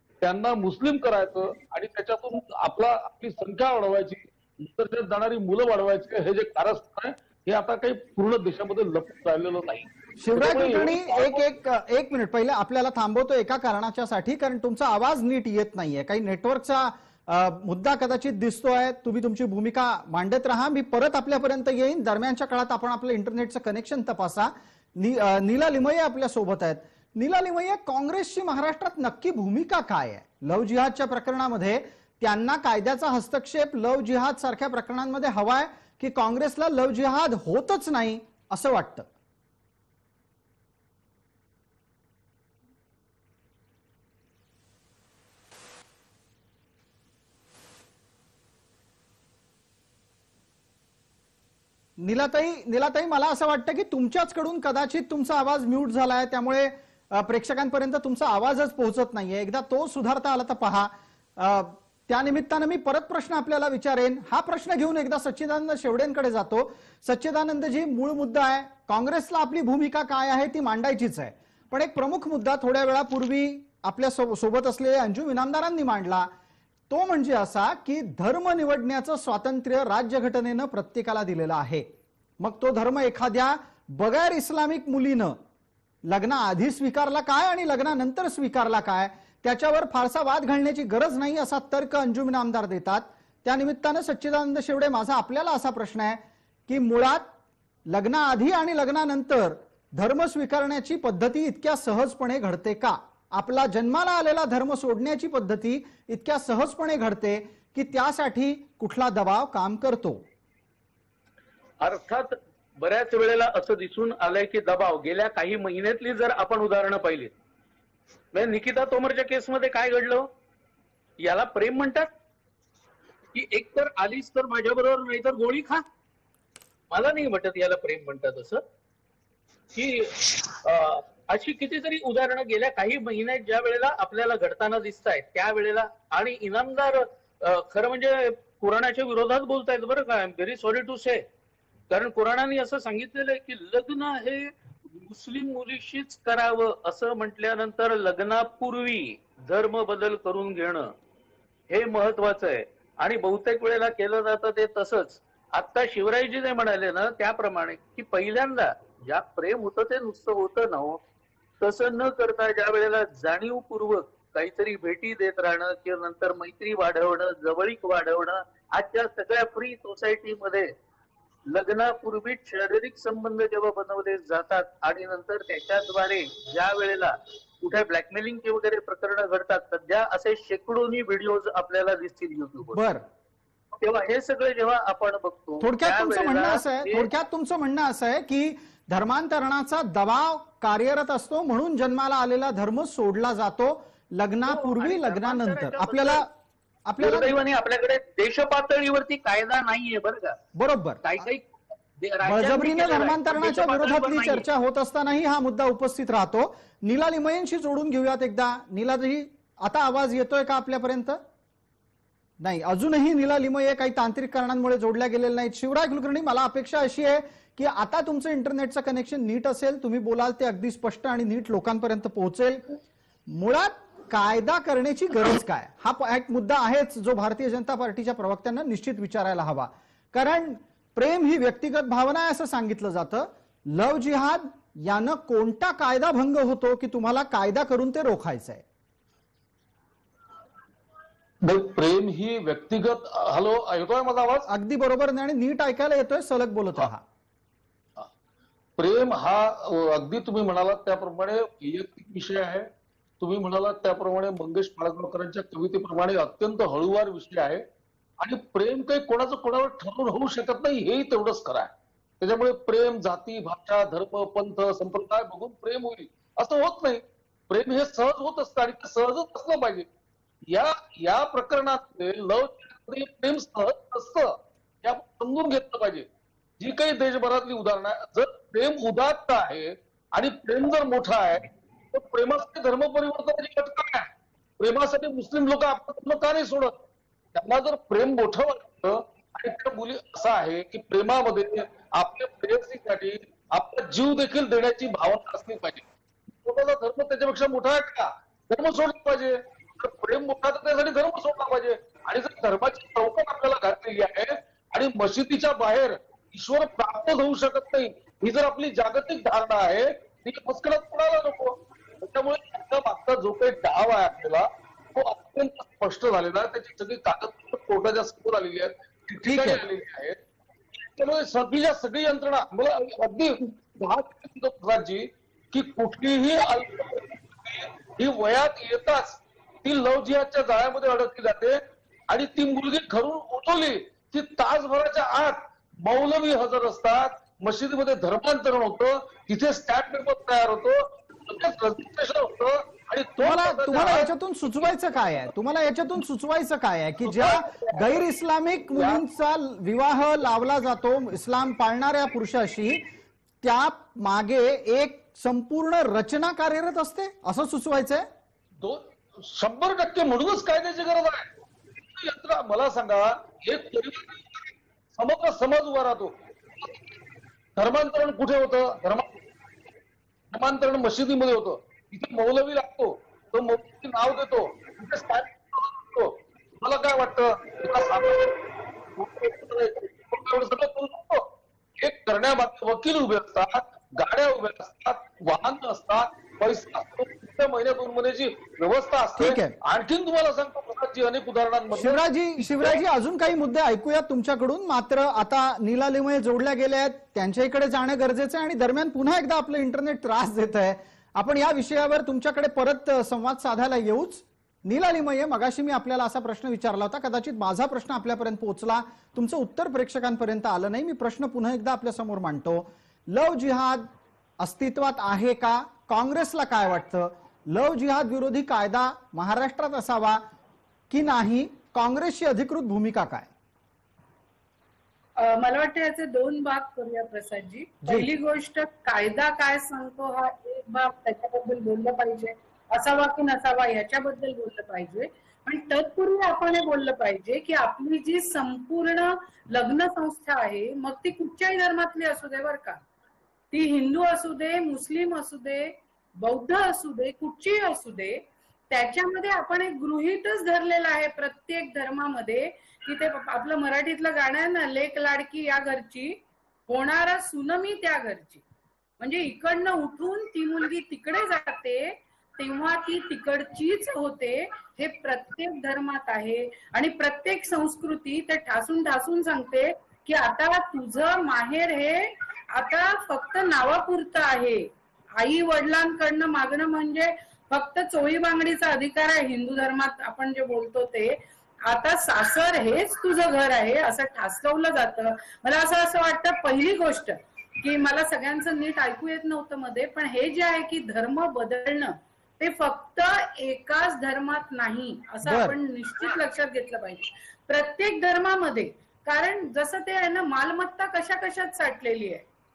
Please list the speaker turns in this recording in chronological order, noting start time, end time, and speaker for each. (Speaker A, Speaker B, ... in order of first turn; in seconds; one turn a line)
Speaker A: 0.2-11.4
Speaker B: 10.2-39.1
Speaker B: 52.0-76.3
Speaker B: 76.9-81.9
Speaker B: 82.4-85.4
Speaker B: 86.0-97.3
Speaker B: 97.9-110.2
Speaker C: 111.8-117.3
Speaker C: 118.3-120.3
Speaker C: 121.2-122.1
Speaker C: 123.3-125.8
Speaker C: 126.9-128.6
Speaker C: 129.7-141.2
Speaker C: 141.9-150.9
Speaker C: 151.7-161.0
Speaker C: 161.6-170.7
Speaker C: 171.5-182.9
Speaker B: 182.7-183.0
Speaker C: 183.8-187.1
Speaker B: 185.6-196.3
Speaker C: 194.5-196.2
Speaker B: 196.8-197.3
Speaker C: 197.0-200.4
Speaker B: 200.5-201.0
Speaker C: 201.0-204.4
Speaker B: 202.2-211.2
Speaker B: 212.4-238.6
Speaker A: 241.4-244.5
Speaker B: 244.5-247.0
Speaker A: 248.8-257.6
Speaker A: 258.2-269.9
Speaker A: 270.5-276.1
Speaker A: 276.6-286.8
Speaker A: 287.3-295.9
Speaker A: 296.4-320.2
Speaker B: 319.2-319.6
Speaker A: 320.8-344.1
Speaker B: 343.2-352.9
Speaker A: 347.0-348.0
Speaker A: 348.7-349.0
Speaker B: 353.4-358.1
Speaker A: 358.6-361.3
Speaker A: 361.9-366.9
Speaker A: 367.6-369.2
Speaker A: 370.3-378.4
Speaker A: 378.9-392.8
Speaker B: 389.2-389.6
Speaker B: 391.7-413.9
Speaker B: 414.4-420.2
Speaker B: 420.9-423.3
Speaker D: 425.2-442.8
Speaker D: 443.5-458.4
Speaker D: 459.0-502.2
Speaker B: 495.2-495.6